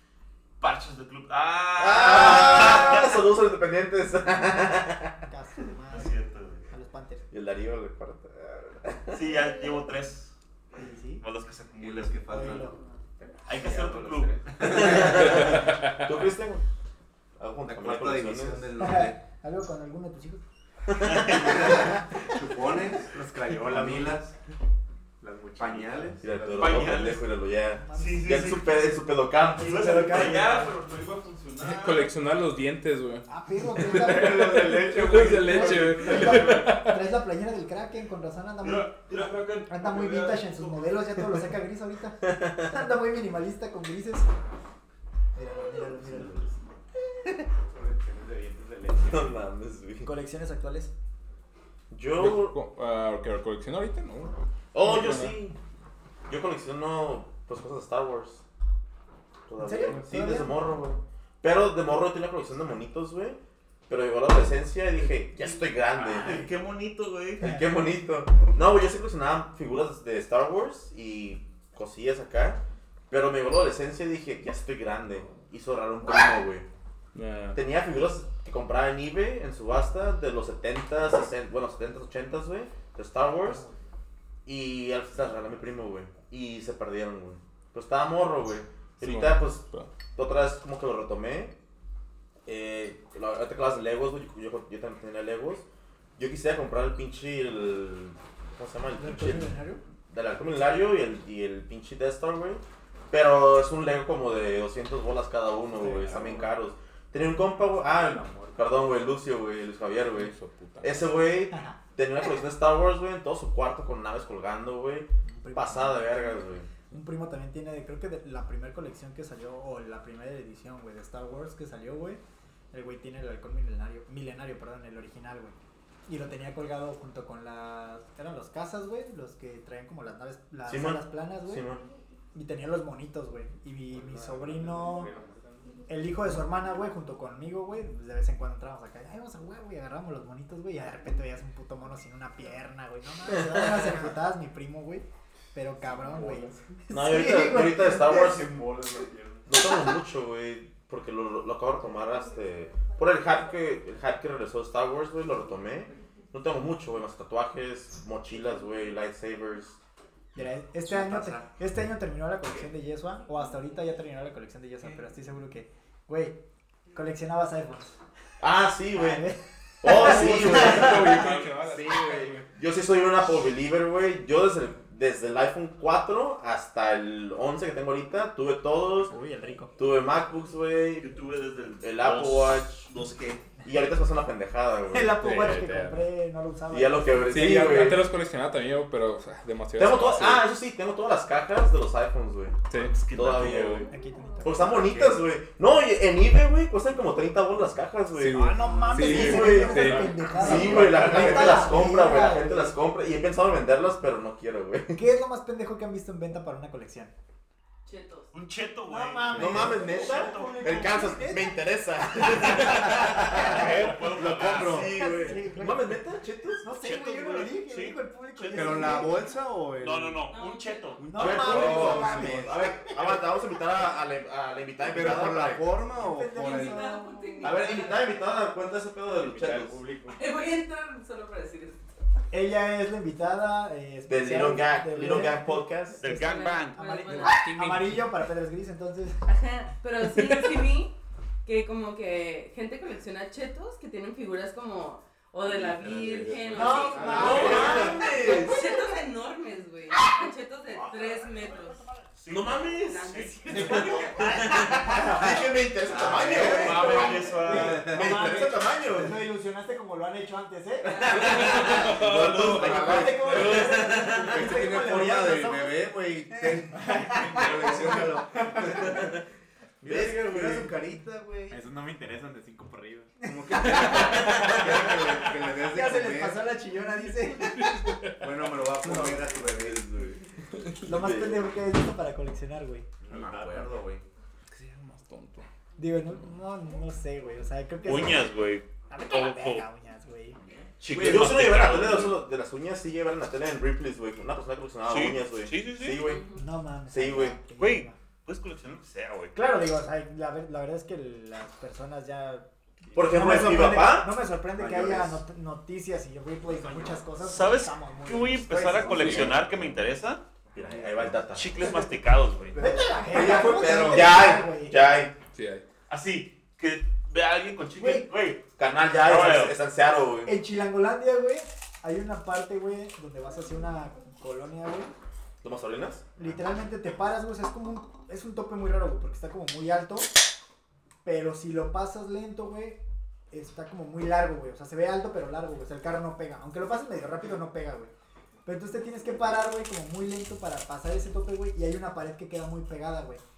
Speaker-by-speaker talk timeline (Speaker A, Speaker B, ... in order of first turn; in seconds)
Speaker A: 0.6-3.2, 5.9-6.6, 9.1-10.3, 11.2-12.5, 13.4-15.0, 21.0-21.5, 26.6-27.2, 27.9-28.9, 29.5-32.1, 38.6-41.2, 65.9-67.6, 181.0-183.4, 192.9-193.9, 208.3-210.9, 213.2-214.9, 216.8-219.2, 219.8-221.7, 236.0-237.2, 247.3-247.8, 252.1-253.8, 256.3-257.8, 287.8-289.6, 290.8-292.2, 294.8-296.1, 297.6-299.4, 307.0-310.2, 311.3-312.6, 315.9-318.4, 319.0-319.6
Speaker B: 1.8-5.2, 7.3-9.3, 14.6-16.6, 17.4-18.7, 20.9-21.6, 26.2-29.9, 42.2-42.9, 46.1-46.4, 49.0-50.1, 51.9-52.6, 54.7-55.5, 56.3-58.4, 59.5-66.5, 67.4-76.7, 77.5-83.7, 84.4-91.6, 92.5-95.6, 96.2-99.5, 100.1-116.7, 130.6-131.8, 146.9-148.9, 149.4-159.8, 168.4-169.3, 169.8-179.1, 179.8-181.2, 181.8-182.9, 183.6-185.2, 186.7-188.1, 189.8-192.6, 193.1-193.9, 194.4-205.0, 209.3-216.7, 221.1-225.6, 227.4-229.8, 234.1-236.0, 247.1-248.7, 252.3-259.2, 260.9-264.3, 269.8-270.7, 273.9-274.6, 278.8-280.2, 280.8-281.5, 290.9-296.2, 296.9-297.4, 302.9-305.1, 309.0-309.4, 310.5-311.5, 313.1-315.1, 318.6-320.4, 325.4-326.1
Speaker C: 5.3-6.2, 6.7-7.2, 10.7-11.2, 12.3-12.8, 18.8-20.4, 27.9-28.6, 29.4-30.8, 33.3-39.1, 39.7-44.3, 45.3-46.5, 50.0-50.9, 59.6-60.6, 99.0-99.8, 105.7-106.2, 111.5-111.8, 115.2-116.2, 116.9-131.7, 132.3-135.1, 135.9-148.4, 160.3-166.4, 166.9-167.9, 168.9-171.1, 179.1-179.8, 184.9-187.9, 193.9-195.0, 198.3-202.8, 204.9-207.1, 208.8-211.6, 213.2-213.7, 214.8-216.0, 216.6-219.2, 221.0-223.2, 225.9-227.8, 232.3-239.2, 246.5-248.5, 253.5-255.4, 256.5-261.8, 262.6-265.7, 266.4-268.8, 273.2-274.3, 275.7-278.0, 280.8-282.9, 285.8-288.2, 288.9-290.4, 296.3-298.0, 299.3-302.5, 303.0-309.4, 311.6-311.9, 312.6-315.0, 317.8-318.1, 320.2-324.9, 326.1-330.1, 331.0-337.9, 338.4-343.2
Speaker D: 11.8-12.7, 14.6-15.4, 17.7-19.2, 21.3-24.3, 25.6-27.1, 160.9-161.5, 214.1-214.9, 218.5-220.2, 221.6-222.5, 224.8-226.8, 245.4-247.9, 255.9-258.5, 261.8-269.1, 269.8-271.6, 273.3-276.5, 278.2-280.0, 283.0-284.0, 304.7-304.9, 313.1-314.2
Speaker E: 13.2-14.6, 23.1-24.2, 25.2-26.6, 34.1-36.7, 47.7-49.4, 105.9-106.5, 107.6-109.0, 133.9-135.8, 145.6-146.9, 147.6-149.5, 185.4-185.8, 213.4-214.8, 221.2-222.2, 229.1-230.2, 245.8-247.8, 267.1-267.9, 271.5-273.1, 283.1-283.8, 302.9-303.2, 310.5-311.1
Speaker F: 15.2-15.9, 31.6-37.0, 52.1-55.4, 77.1-77.6, 89.0-89.9, 110.1-111.0, 169.9-172.5, 185.2-185.9, 187.2-190.5, 192.7-193.0, 198.1-200.6, 237.1-238.1, 261.1-263.6, 277.4-278.3, 284.5-285.4, 308.9-309.4, 315.3-315.6
Speaker G: 198.6-198.9, 200.2-200.8, 207.8-208.3, 220.3-221.2, 226.3-228.2, 230.1-231.8, 236.1-237.5, 239.2-251.8, 252.7-254.6, 296.0-296.4